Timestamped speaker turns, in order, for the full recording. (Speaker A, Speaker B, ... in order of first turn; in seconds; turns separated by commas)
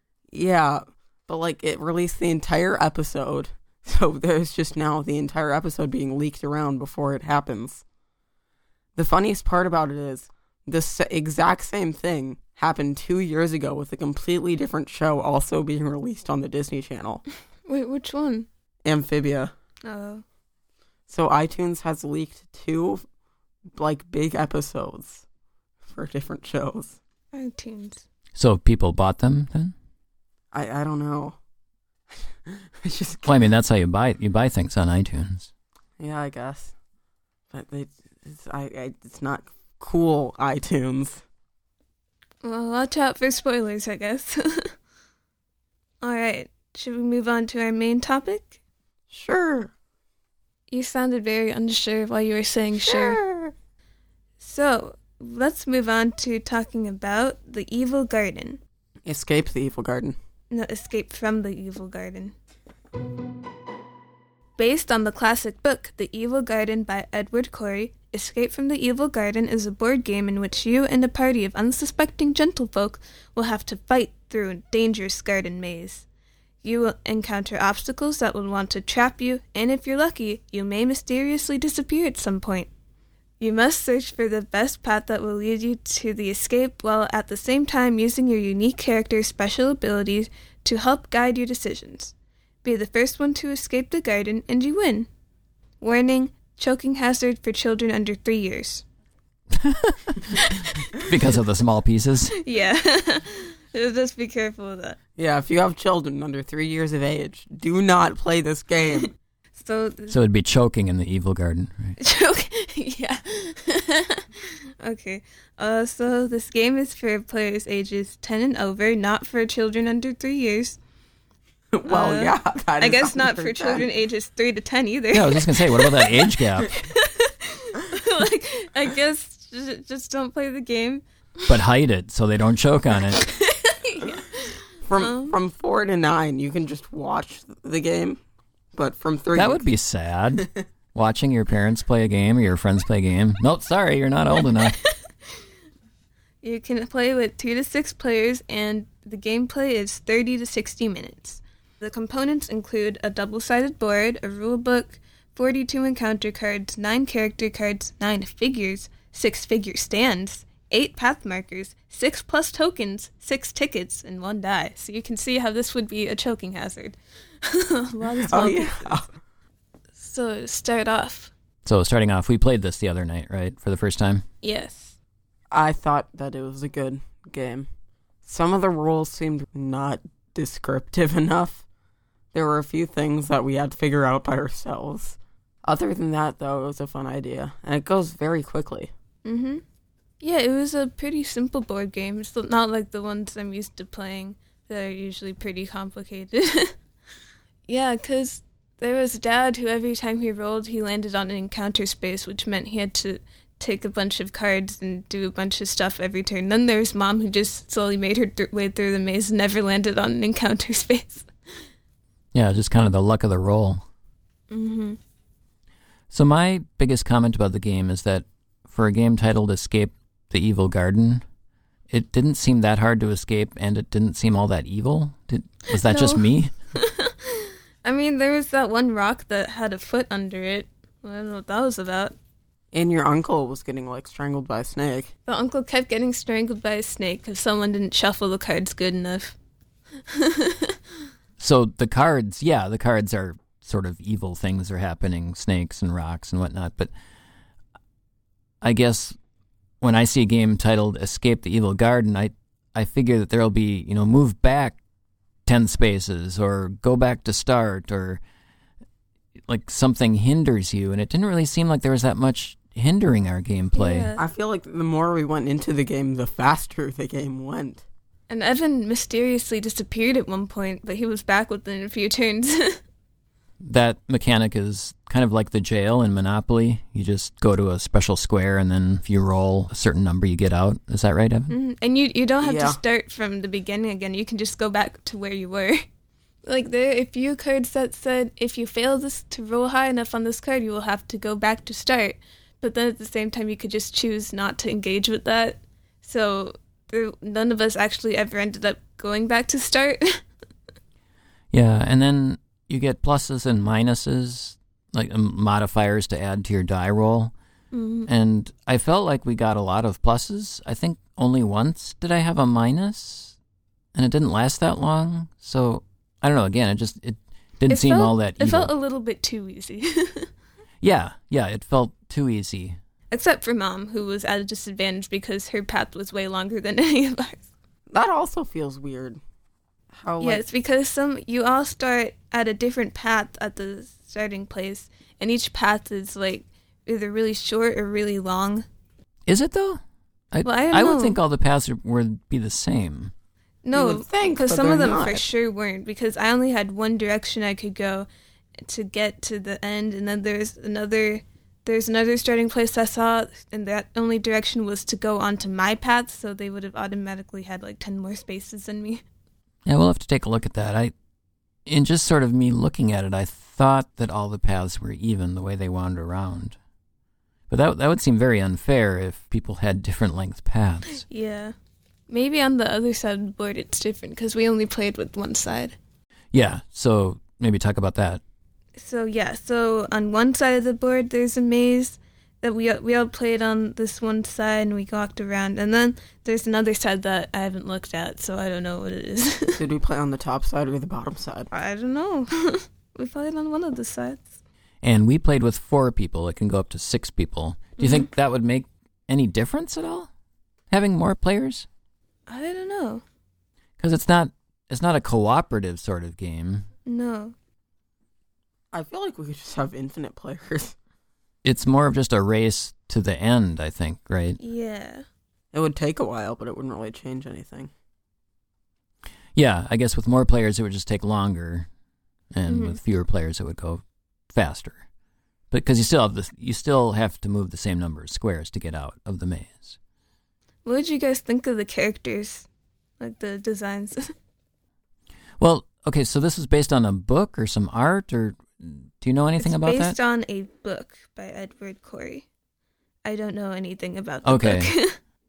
Speaker A: 0.3-7.8, Speaker A: 9.0-17.2, Speaker B: 17.7-18.5, Speaker A: 18.8-19.5, Speaker B: 19.9-20.2, Speaker A: 21.1-23.0, Speaker A: 23.8-25.2, Speaker A: 25.9-27.0, Speaker B: 27.3-28.1, Speaker C: 28.4-29.7, Speaker A: 30.5-31.4, Speaker A: 32.5-33.5, Speaker C: 33.2-35.5, Speaker A: 36.0-36.7, Speaker A: 37.5-41.2, Speaker B: 42.4-44.7, Speaker B: 46.0-48.6, Speaker A: 49.1-49.7, Speaker B: 50.7-53.2, Speaker A: 52.8-53.5, Speaker B: 54.4-58.6, Speaker A: 59.0-60.2, Speaker B: 60.5-62.3, Speaker B: 64.6-76.1, Speaker B: 76.6-82.7, Speaker B: 83.4-95.1, Speaker B: 95.8-98.8, Speaker C: 99.5-102.3, Speaker B: 100.3-100.9, Speaker B: 102.4-105.0, Speaker A: 105.2-109.1, Speaker B: 109.5-110.2, Speaker C: 110.1-112.0, Speaker B: 112.0-120.8, Speaker A: 121.8-123.9, Speaker B: 121.9-131.0, Speaker C: 125.1-126.7, Speaker C: 131.5-133.3, Speaker B: 133.2-135.3, Speaker A: 134.9-138.2, Speaker A: 138.8-139.7, Speaker C: 139.3-144.8, Speaker B: 144.5-145.0, Speaker B: 146.4-169.0, Speaker A: 168.3-169.1, Speaker B: 170.0-171.3, Speaker C: 171.7-174.2, Speaker B: 174.4-175.0, Speaker A: 175.5-177.7, Speaker A: 178.2-181.7, Speaker A: 182.3-188.9, Speaker B: 189.2-189.6, Speaker B: 190.2-196.7, Speaker B: 197.7-211.3, Speaker C: 212.3-213.8, Speaker B: 214.5-215.0, Speaker C: 216.1-221.2, Speaker C: 221.9-226.5, Speaker B: 225.8-232.2, Speaker A: 232.7-235.1, Speaker B: 235.3-239.4, Speaker B: 240.1-240.8, Speaker C: 241.4-246.9, Speaker C: 248.6-249.2, Speaker C: 249.8-254.8, Speaker C: 255.5-258.2, Speaker C: 259.5-264.1, Speaker B: 263.7-264.2, Speaker A: 264.2-267.8, Speaker B: 268.3-272.8, Speaker C: 273.6-281.5, Speaker B: 281.5-285.8, Speaker A: 282.4-282.8, Speaker B: 286.4-300.2, Speaker C: 301.5-307.3, Speaker B: 307.7-308.1, Speaker C: 308.1-313.4, Speaker C: 313.9-318.7, Speaker B: 317.7-320.3, Speaker C: 320.8-322.8, Speaker B: 323.1-327.4, Speaker A: 327.9-329.2, Speaker A: 329.9-330.4, Speaker B: 330.2-338.6, Speaker C: 339.2-339.8, Speaker C: 340.3-343.1, Speaker B: 340.4-341.2, Speaker B: 343.6-348.1, Speaker A: 343.7-345.2, Speaker B: 348.6-359.0, Speaker C: 359.6-360.9, Speaker C: 361.6-366.6, Speaker C: 367.5-371.1, Speaker B: 371.0-371.5, Speaker B: 372.1-375.8, Speaker C: 376.3-378.2, Speaker B: 378.8-389.6, Speaker A: 389.6-391.5, Speaker B: 391.5-394.3, Speaker C: 394.8-400.1, Speaker B: 397.8-398.0, Speaker C: 400.7-401.6, Speaker B: 402.3-403.0, Speaker C: 403.8-406.6, Speaker B: 406.9-407.4, Speaker A: 408.7-410.8, Speaker C: 411.4-414.4, Speaker B: 414.4-415.0, Speaker A: 415.5-417.7, Speaker C: 419.4-421.7, Speaker C: 422.3-424.8, Speaker B: 422.4-422.8, Speaker C: 425.5-429.8, Speaker B: 430.6-432.5, Speaker B: 433.0-434.1, Speaker C: 435.4-440.0, Speaker B: 439.4-442.2, Speaker B: 443.0-444.9, Speaker C: 444.2-444.7